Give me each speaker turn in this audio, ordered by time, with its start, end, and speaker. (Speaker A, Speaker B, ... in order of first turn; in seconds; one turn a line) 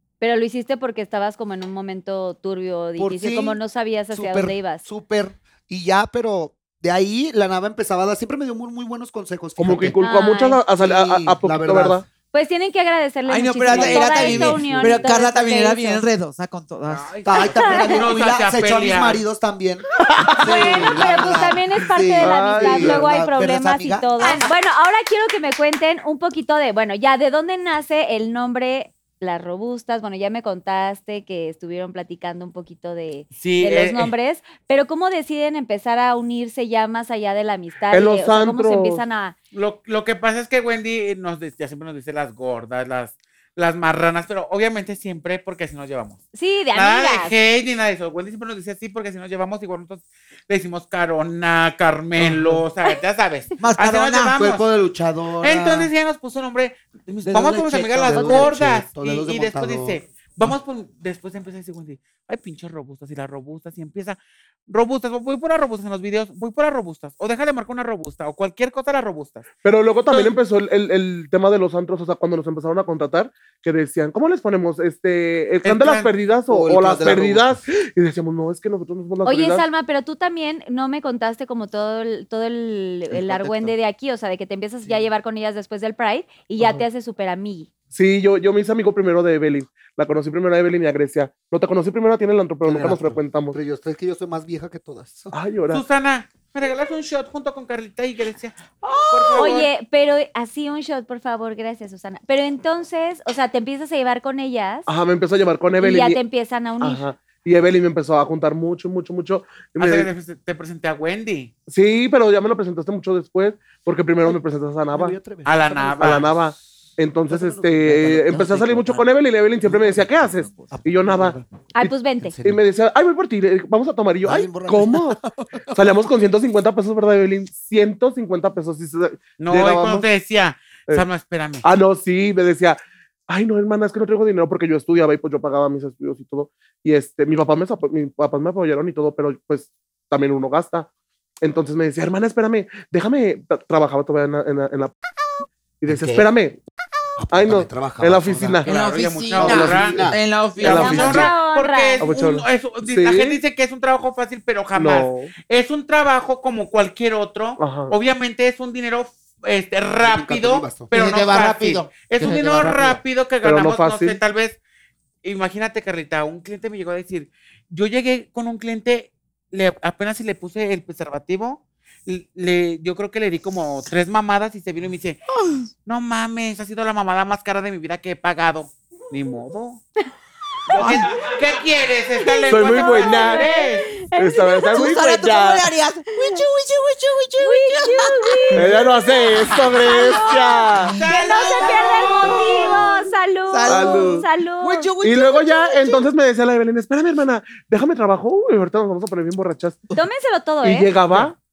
Speaker A: 0.2-4.8
Speaker B: 3.0-3.6
Speaker B: 4.1-10.0
Speaker C: 9.6-12.1
Speaker A: 10.0-10.6
Speaker B: 10.8-12.0
Speaker A: 12.3-16.0
Speaker D: 13.3-17.1
Speaker B: 13.7-14.6
Speaker C: 13.7-15.0
Speaker E: 16.9-19.2
Speaker B: 17.2-24.1
Speaker A: 17.4-18.0
Speaker C: 20.0-20.9
Speaker A: 20.4-39.4
Speaker C: 22.2-23.1
Speaker E: 33.4-34.1
Speaker C: 37.9-39.0
Speaker E: 39.5-46.2
Speaker A: 46.3-47.3
Speaker E: 46.8-54.6
Speaker D: 53.6-54.4
Speaker B: 54.4-55.9
Speaker E: 55.4-64.2
Speaker D: 57.2-58.5
Speaker B: 58.0-60.0
Speaker E: 64.7-69.5
Speaker C: 69.6-79.6
Speaker E: 75.6-76.1
Speaker B: 76.5-77.6
Speaker A: 79.2-87.7
Speaker C: 87.9-93.6
Speaker B: 92.6-95.3
Speaker C: 95.3-95.8
Speaker E: 95.7-99.7
Speaker D: 98.8-99.5
Speaker A: 99.3-104.9
Speaker C: 104.9-106.2
Speaker A: 105.8-107.1
Speaker C: 106.8-110.1
Speaker E: 109.8-111.5
Speaker C: 111.7-115.2
Speaker B: 114.9-116.2
Speaker E: 115.4-116.3
Speaker C: 116.0-121.4
Speaker B: 117.3-119.0
Speaker D: 118.3-118.9
Speaker D: 119.6-120.8
Speaker B: 120.5-121.4
Speaker A: 121.8-122.4
Speaker B: 122.2-122.6
Speaker C: 122.4-125.2
Speaker B: 124.2-125.8
Speaker C: 125.8-129.2
Speaker E: 129.4-131.7
Speaker B: 129.5-130.1
Speaker C: 131.6-132.8
Speaker C: 133.3-140.9
Speaker C: 141.4-144.9
Speaker C: 145.8-146.6
Speaker B: 145.9-146.2
Speaker B: 147.2-148.6
Speaker C: 147.3-148.7
Speaker D: 148.7-151.3
Speaker E: 148.7-150.0
Speaker B: 149.4-150.2
Speaker C: 149.4-150.0
Speaker E: 150.6-164.6
Speaker C: 150.6-151.3
Speaker A: 151.0-152.2
Speaker C: 152.0-153.4
Speaker C: 154.7-155.3
Speaker C: 157.6-157.9
Speaker B: 160.0-160.9
Speaker D: 160.9-163.0
Speaker C: 163.4-164.2
Speaker E: 165.2-175.2
Speaker D: 175.3-175.7
Speaker E: 175.9-179.8
Speaker E: 180.7-183.9
Speaker D: 180.7-181.2
Speaker A: 182.2-184.8
Speaker C: 182.5-183.4
Speaker C: 184.2-185.7
Speaker D: 184.7-196.1
Speaker A: 187.4-188.8
Speaker C: 188.6-190.9
Speaker A: 189.7-194.9
Speaker E: 191.0-192.7
Speaker C: 193.7-194.3
Speaker C: 195.0-199.9
Speaker A: 199.9-200.9
Speaker C: 200.6-201.4